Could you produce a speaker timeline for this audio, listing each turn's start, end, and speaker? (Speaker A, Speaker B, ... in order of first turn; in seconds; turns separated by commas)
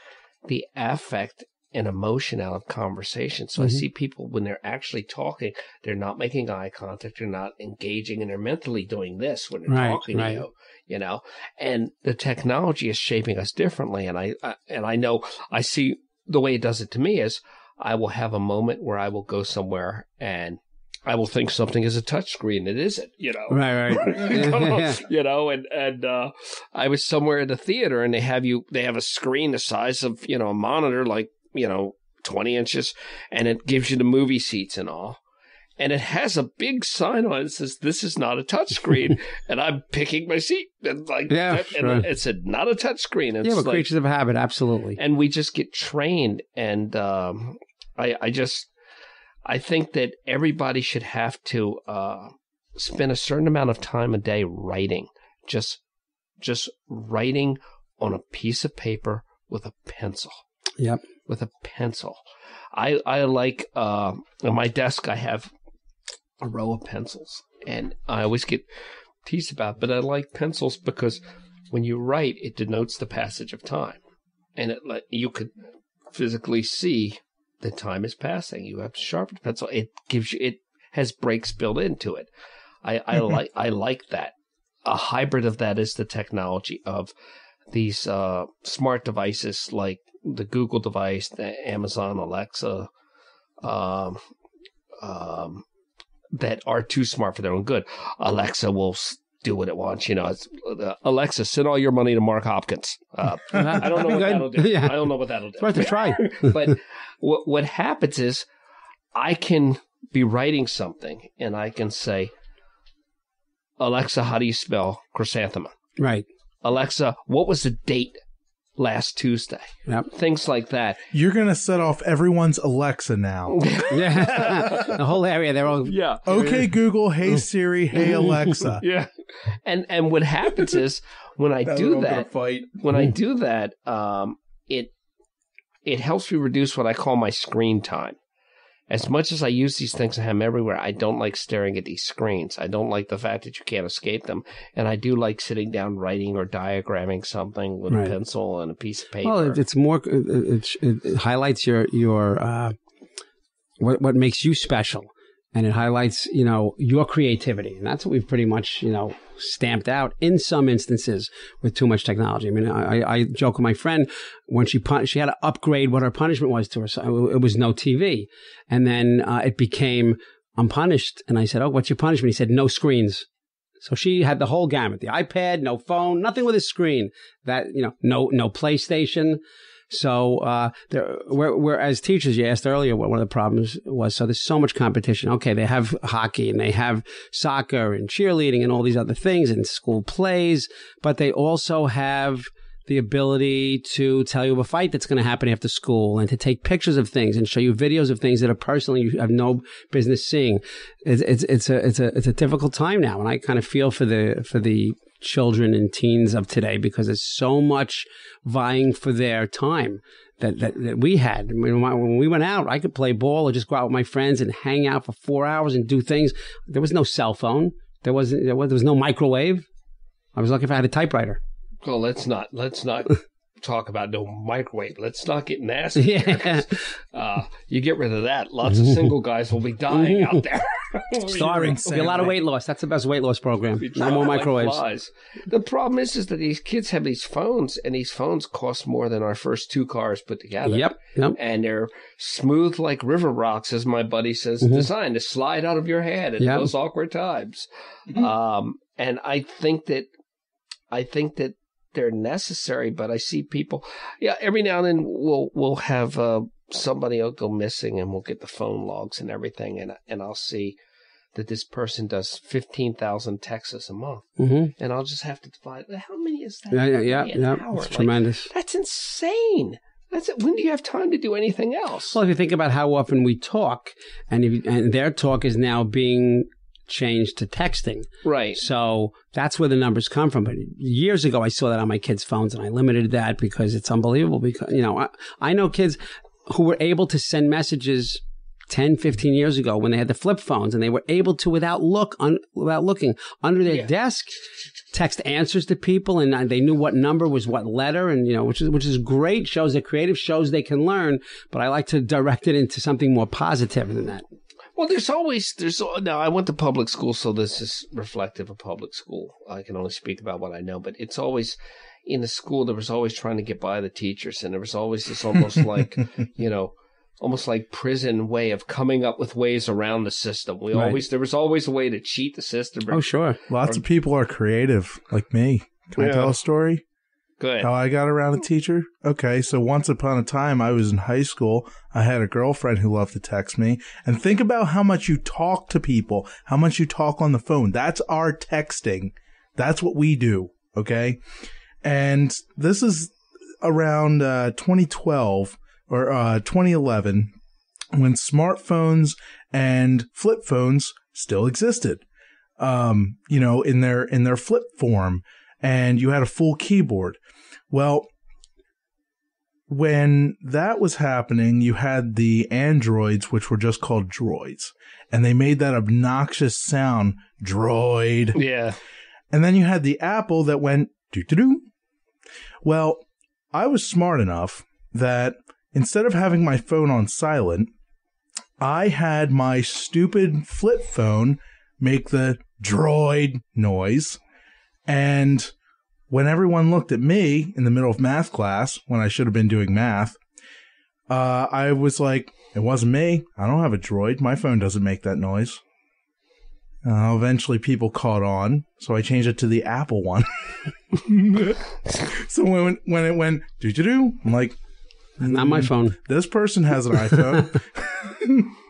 Speaker A: 0.5-35.2, Speaker B: 3.6-3.8, Speaker B: 9.7-10.4, Speaker B: 23.5-25.0, Speaker A: 35.8-43.9, Speaker B: 41.3-42.1, Speaker B: 43.4-45.0, Speaker A: 45.0-48.7, Speaker A: 49.5-55.8, Speaker A: 56.4-60.4, Speaker B: 60.8-61.0, Speaker A: 61.3-62.2, Speaker A: 62.7-65.5, Speaker A: 66.4-68.7, Speaker A: 69.2-74.0, Speaker A: 74.6-75.5, Speaker A: 76.1-82.3, Speaker A: 82.8-84.3, Speaker A: 84.8-87.1, Speaker A: 87.7-92.9, Speaker A: 93.6-94.2, Speaker A: 95.0-95.6, Speaker A: 96.3-108.5, Speaker B: 103.5-106.7, Speaker A: 109.1-112.3, Speaker A: 113.8-115.7, Speaker B: 116.0-116.2, Speaker A: 116.6-118.2, Speaker A: 118.8-121.0, Speaker C: 121.1-124.7, Speaker A: 123.5-125.0, Speaker B: 123.9-126.7, Speaker A: 125.8-126.2, Speaker C: 126.2-128.8, Speaker A: 128.8-134.9, Speaker C: 131.6-132.8, Speaker A: 135.8-138.2, Speaker A: 138.9-149.6, Speaker B: 149.2-152.8, Speaker B: 153.8-173.3, Speaker B: 173.8-219.7, Speaker B: 220.3-221.4, Speaker A: 221.8-232.2, Speaker B: 225.9-226.8, Speaker B: 229.9-230.4, Speaker C: 231.3-232.4, Speaker B: 231.3-234.8, Speaker A: 233.8-250.1, Speaker B: 240.6-241.4, Speaker B: 244.6-244.9, Speaker B: 246.4-246.7, Speaker A: 250.9-260.8, Speaker A: 261.3-272.2, Speaker B: 264.4-264.7, Speaker B: 266.7-268.5, Speaker B: 272.1-304.2, Speaker A: 278.2-278.6, Speaker A: 304.8-323.8, Speaker B: 320.7-321.0, Speaker B: 322.9-323.4, Speaker C: 323.5-326.8, Speaker A: 326.0-326.4, Speaker A: 327.4-327.7, Speaker C: 327.6-341.2, Speaker C: 341.8-347.3, Speaker C: 347.9-352.0, Speaker C: 352.6-357.2, Speaker C: 357.7-358.1, Speaker C: 359.7-368.4, Speaker A: 368.4-368.8, Speaker C: 369.3-371.6, Speaker C: 372.6-377.7, Speaker C: 378.6-384.2, Speaker C: 384.9-385.5, Speaker C: 386.1-390.2, Speaker C: 391.1-395.6, Speaker C: 396.8-400.2, Speaker C: 400.9-404.6, Speaker C: 405.2-408.5, Speaker B: 405.2-406.0